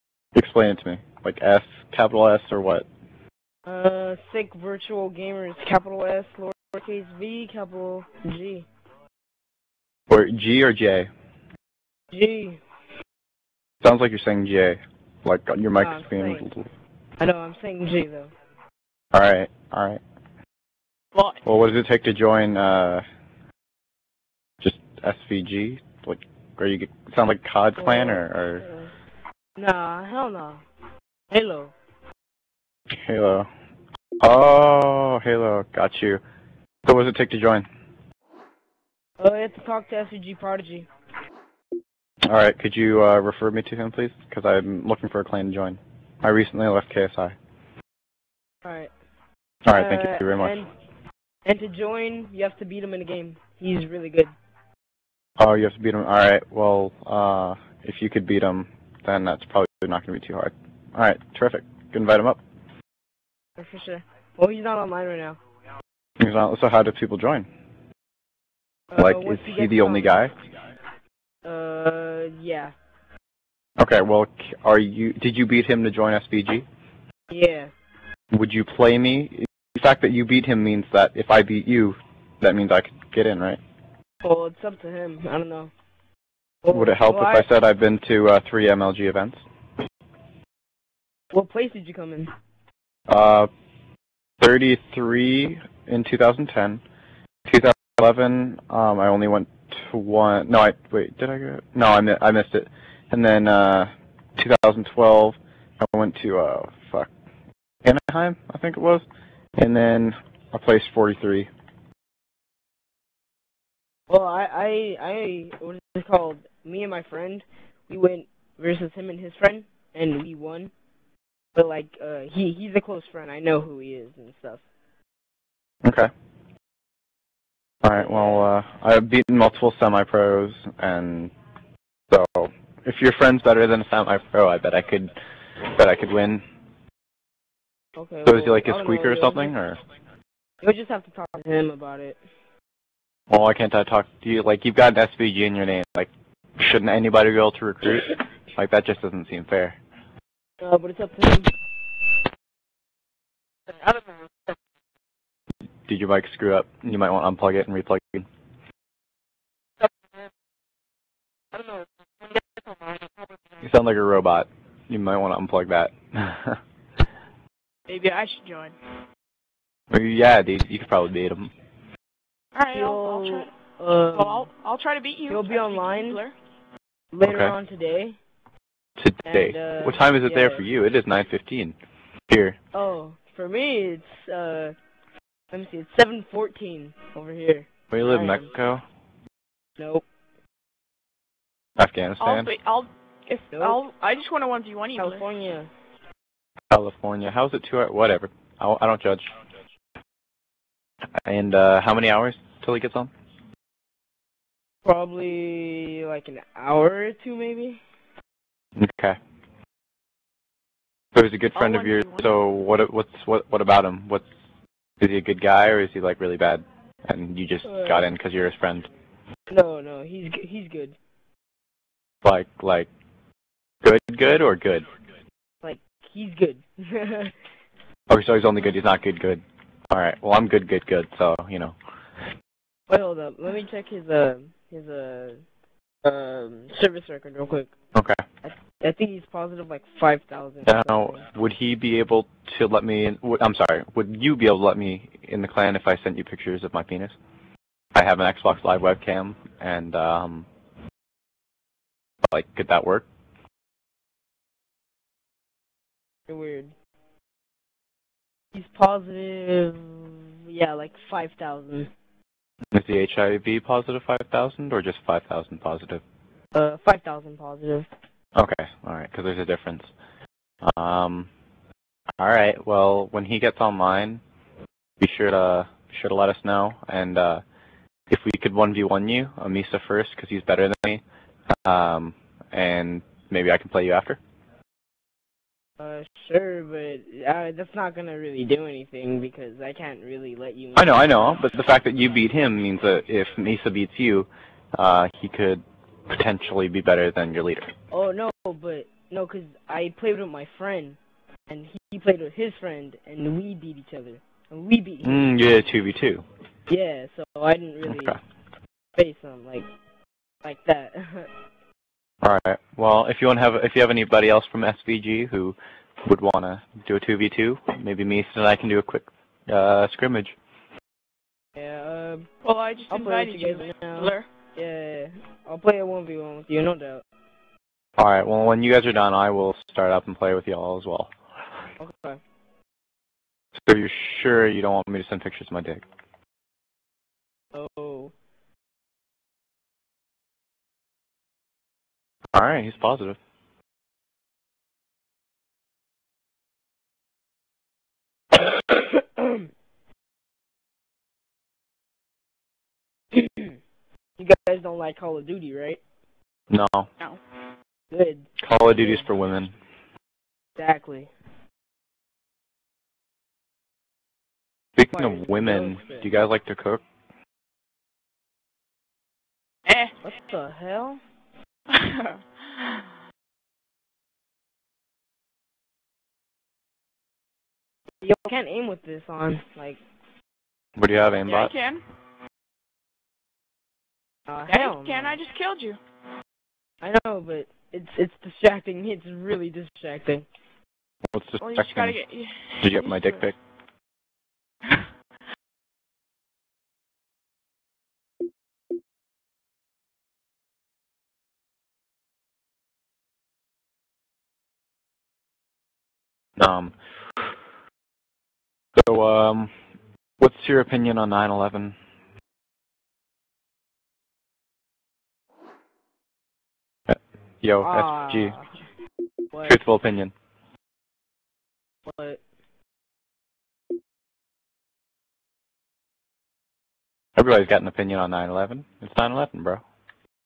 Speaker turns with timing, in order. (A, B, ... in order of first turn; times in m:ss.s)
0:00.3-0:02.9 A
0:03.6-0:08.7 B
0:10.1-0:11.1 A
0:12.1-0:12.6 B
0:13.8-0:16.7 A
0:15.7-0:16.5 B
0:17.2-0:18.3 B
0:19.1-0:20.0 A
0:21.1-0:21.4 C
0:21.4-0:23.0 A
0:24.6-0:28.6 A
0:27.8-0:28.9 B
0:29.6-0:30.6 B
0:31.3-0:31.7 B
0:32.9-0:33.5 A
0:34.2-0:36.2 A
0:36.8-0:37.7 A
0:39.2-0:40.9 B
0:42.2-0:47.4 A
0:48.6-0:48.9 B
0:49.6-0:50.6 A
0:49.7-0:50.7 B
0:51.4-0:54.3 B
0:55.4-1:02.4 A
1:03.6-1:05.4 B
1:06.2-1:07.5 A
1:08.9-1:10.3 B
1:09.0-1:10.3 A
1:11.4-1:12.7 B
1:13.8-1:16.6 A
1:17.3-1:17.7 B
1:18.3-1:23.6 A
1:24.2-1:25.7 B
1:26.6-1:27.5 B
1:26.7-1:29.4 A
1:31.3-1:32.3 B
1:33.1-1:33.5 A
1:34.4-1:36.8 A
1:37.5-1:47.1 A
1:47.8-1:49.0 A
1:49.6-1:51.5 A
1:54.1-2:00.7 B
2:01.5-2:04.6 B
2:05.8-2:06.1 A
2:07.8-2:11.3 A
2:08.0-2:08.4 B
2:12.1-2:15.1 A
2:15.6-2:16.4 A
2:18.0-2:19.6 B
2:18.2-2:19.8 A
2:20.6-2:22.2 B
2:23.3-2:29.8 A
2:30.6-2:31.5 B
2:33.8-2:34.2 B
2:35.9-2:38.3 A
2:41.5-2:42.6 B
2:43.6-2:46.6 A
2:47.9-2:48.7 C
2:49.9-2:51.5 A
2:52.5-2:53.5 C
2:52.7-2:54.5 B
2:54.1-2:56.3 C
2:55.3-2:56.2 B
2:57.1-2:58.2 B
2:57.2-2:57.5 A
2:59.0-3:01.8 A
2:59.2-3:00.6 B
3:02.3-3:02.6 A
3:02.7-3:04.7 B
3:05.5-3:08.4 B
3:07.9-3:08.8 A
3:09.8-3:10.0 B
3:11.8-3:12.5 A
3:12.2-3:15.3 C
3:13.5-3:13.8 B
3:15.0-3:15.7 B
3:16.7-3:19.3 A
3:21.2-3:23.1 A
3:24.8-3:27.8 B
3:28.8-3:29.2 A
3:31.1-3:34.2 A
3:31.5-3:32.5 C
3:35.0-3:38.9 A
3:37.6-3:38.1 B
3:39.5-3:41.0 B
3:42.2-3:42.9 A
3:43.8-3:44.9 A
3:45.6-3:47.3 B
3:48.1-3:51.8 A
3:52.9-3:55.4 B
3:56.0-3:57.7 B
3:57.9-3:58.2 A
3:58.5-4:01.2 B
4:00.6-4:07.2 A
4:07.9-4:10.5 A
4:12.3-4:13.1 A
4:16.3-4:16.7 B
4:18.5-4:21.9 B
4:22.7-4:26.0 A
4:26.5-4:27.9 B
4:28.3-4:29.9 A
4:30.6-4:31.3 A
4:32.2-4:34.2 A
4:35.0-4:37.4 A
4:38.1-4:41.0 A
4:41.6-4:44.2 A
4:45.8-4:51.4 B
4:50.7-4:57.7 A
4:57.9-5:01.0 B
5:01.5-5:05.3 B
5:05.0-5:06.2 A
5:06.7-5:08.2 B
5:07.8-5:08.2 A
5:09.0-5:09.7 B
5:10.4-5:11.3 B
5:12.2-5:20.4 A
5:21.6-5:22.3 B
5:22.4-5:24.3 C
5:22.9-5:27.0 B
5:28.0-5:31.1 A
5:31.8-5:32.2 B
5:33.6-5:35.8 A
5:37.5-5:38.1 B
5:42.3-5:43.2 A
5:48.3-5:49.5 B
5:53.1-5:53.6 B
5:54.2-5:55.8 B
5:56.5-5:56.9 A
5:57.9-5:59.1 B
5:58.4-5:59.5 A
6:00.6-6:01.1 B
6:04.8-6:06.8 A
6:04.9-6:06.1 B
6:09.7-6:10.0 C
6:10.0-6:11.0 B
6:11.7-6:13.0 C
6:18.0-6:19.8 B
6:20.8-6:21.5 A
6:21.2-6:21.8 C
6:24.3-6:25.2 B
6:24.5-6:25.8 C
6:26.8-6:30.2 B
6:31.1-6:32.0 A
6:31.4-6:33.2 C
6:32.6-6:33.4 A
6:34.6-6:34.9 C
6:46.4-6:46.7 A
6:48.8-6:49.5 A
6:50.2-6:51.8 A
6:56.9-6:58.4 A
6:57.6-6:58.5 B
6:59.4-7:00.1 A
7:01.8-7:02.2 B
7:07.2-7:09.6 A